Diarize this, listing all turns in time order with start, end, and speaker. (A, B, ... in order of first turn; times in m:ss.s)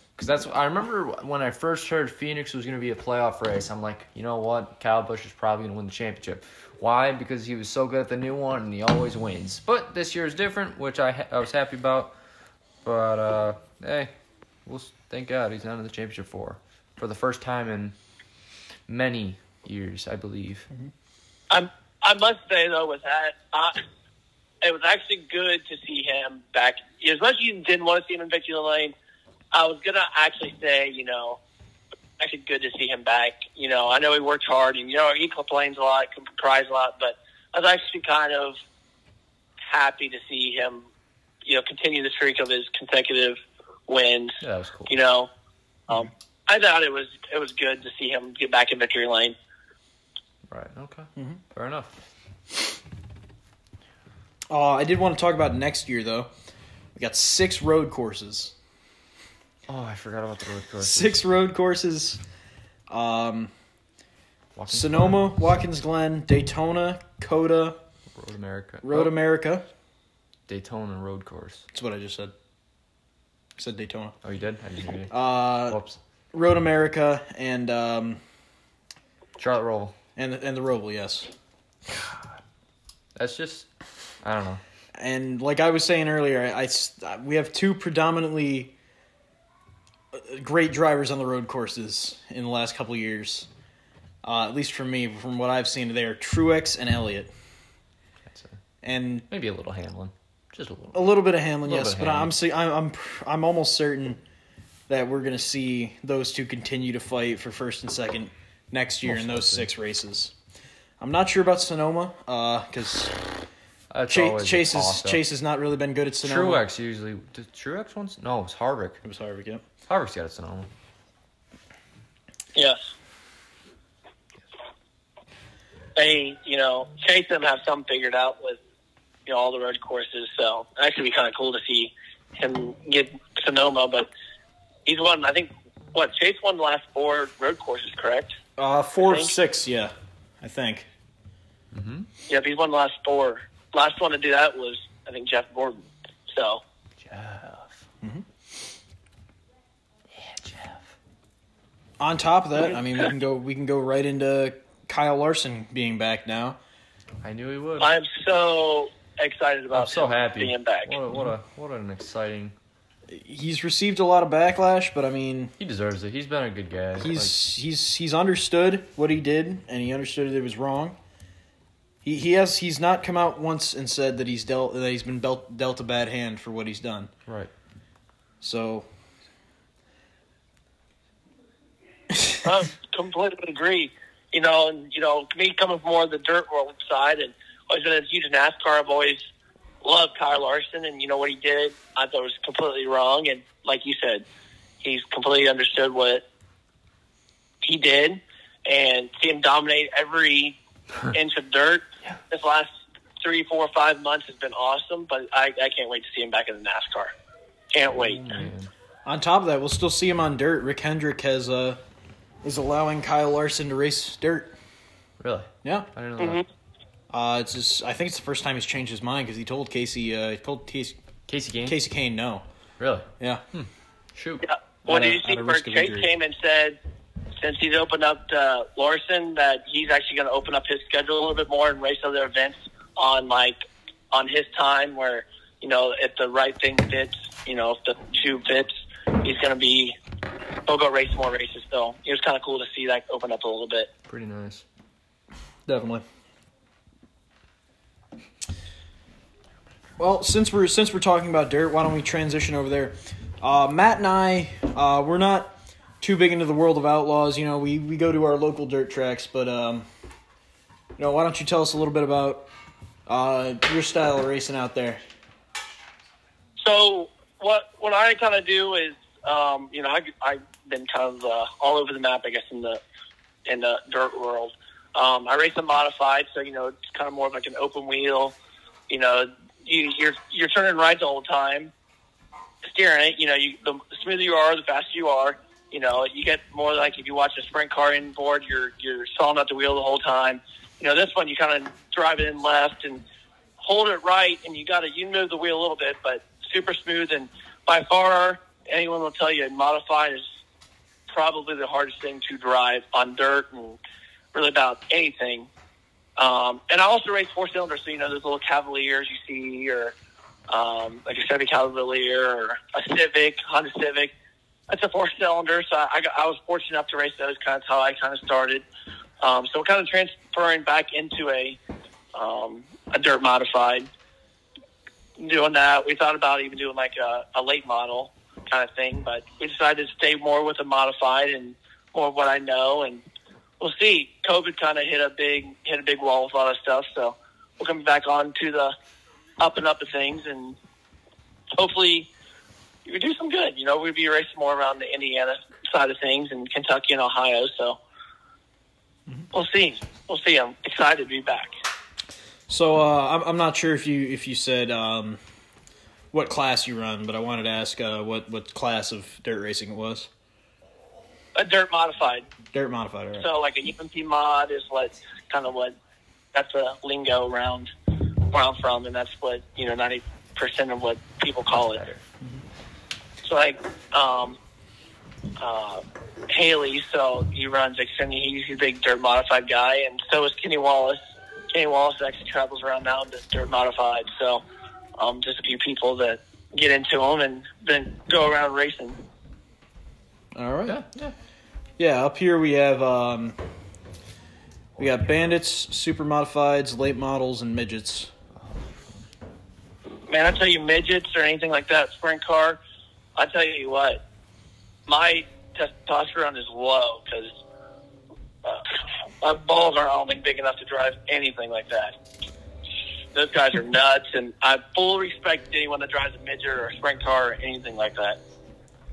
0:00.2-0:12.2 A
0:12.8-0:14.1 A
0:14.6-0:18.0 A
0:18.9-0:20.7 A
0:21.5-0:23.8 B
0:24.6-0:28.9 B
0:29.5-0:31.4 B
0:32.2-0:38.6 B
0:39.7-0:40.9 B
0:41.4-0:45.3 B
0:44.4-0:44.9 A
0:45.9-0:49.4 B
0:50.5-0:52.0 A
0:54.5-0:56.3 C
0:57.0-0:58.6 C
0:59.7-1:01.2 A
1:00.8-1:02.2 C
1:02.9-1:03.5 C
1:04.6-1:05.6 A
1:04.7-1:07.8 C
1:08.1-1:09.1 A
1:08.8-1:09.6 C
1:10.5-1:11.6 A
1:11.7-1:12.3 C
1:13.6-1:14.2 C
1:14.2-1:16.0 A
1:15.1-1:15.8 C
1:16.3-1:18.2 C
1:19.4-1:20.0 A
1:20.2-1:21.3 C
1:23.2-1:24.6 A
1:25.0-1:28.7 C
1:30.1-1:33.5 C
1:34.2-1:37.3 C
1:38.3-1:38.6 A
1:38.8-1:39.3 C
1:39.3-1:42.3 A
1:40.9-1:44.2 C
1:44.9-1:50.3 C
1:49.1-1:49.7 A
1:51.0-1:53.3 C
1:53.9-1:55.2 A
1:54.1-1:56.6 C
1:56.2-1:59.0 A
1:59.0-1:59.6 C
1:59.9-2:00.7 A
2:02.6-2:02.8 B
2:06.0-2:08.6 B
2:09.3-2:14.1 B
2:14.9-2:18.4 B
2:18.6-2:20.9 C
2:21.7-2:22.1 A
2:22.3-2:26.6 B
2:27.0-2:27.8 A
2:30.1-2:30.9 A
2:32.0-2:36.6 C
2:37.2-2:38.0 A
2:37.8-2:40.9 B
2:39.7-2:42.6 A
2:43.1-2:45.5 C
2:45.6-2:47.4 A
2:47.0-2:51.0 C
2:52.0-2:57.1 C
2:58.4-2:58.9 C
3:02.4-3:09.2 B
3:09.8-3:14.2 B
3:14.8-3:16.2 B
3:17.6-3:20.6 B
3:21.1-3:22.7 B
3:23.2-3:27.1 B
3:27.7-3:28.2 B
3:27.9-3:28.7 A
3:29.1-3:31.8 C
3:32.4-3:34.6 C
3:35.2-3:36.4 A
3:35.6-3:35.9 C
3:36.2-3:36.4 B
3:37.1-3:41.0 C
3:41.3-3:41.8 A
3:41.6-3:42.4 C
3:42.8-3:44.4 A
3:43.2-3:43.4 C
3:44.4-3:46.8 B
3:44.9-3:46.1 C
3:47.4-3:53.6 B
3:54.1-3:58.7 B
3:59.2-4:00.0 B
4:00.7-4:03.9 B
4:04.1-4:04.6 A
4:05.7-4:06.0 C
4:10.0-4:19.9 C
4:21.0-4:22.5 C
4:23.1-4:25.0 C
4:26.6-4:32.8 B
4:33.5-4:38.4 B
4:38.9-4:41.7 B
4:42.6-4:53.0 B
4:53.6-5:00.2 B
5:01.1-5:03.8 B
5:04.3-5:05.5 B
5:06.2-5:09.9 B
5:10.5-5:14.1 B
5:14.7-5:18.6 B
5:19.2-5:21.6 B
5:22.1-5:23.9 B
5:25.2-5:33.0 B
5:33.6-5:38.7 B
5:39.4-5:40.6 B
5:41.5-5:42.1 B
5:42.9-5:47.8 B
5:49.3-5:51.6 B
5:52.5-5:55.2 C
5:56.1-6:00.1 C
6:01.4-6:02.3 B
6:02.5-6:03.3 C
6:03.2-6:05.8 B
6:06.3-6:07.7 B
6:08.3-6:11.9 B
6:13.2-6:14.4 B
6:15.4-6:21.0 B
6:21.5-6:24.4 B
6:25.0-6:29.0 B
6:30.3-6:30.8 C
6:30.7-6:31.1 A
6:31.8-6:33.4 C
6:34.8-6:38.1 C
6:40.1-6:42.6 B
6:43.2-6:44.0 B
6:44.9-6:47.3 B
6:49.2-6:52.0 B
6:53.1-6:58.2 B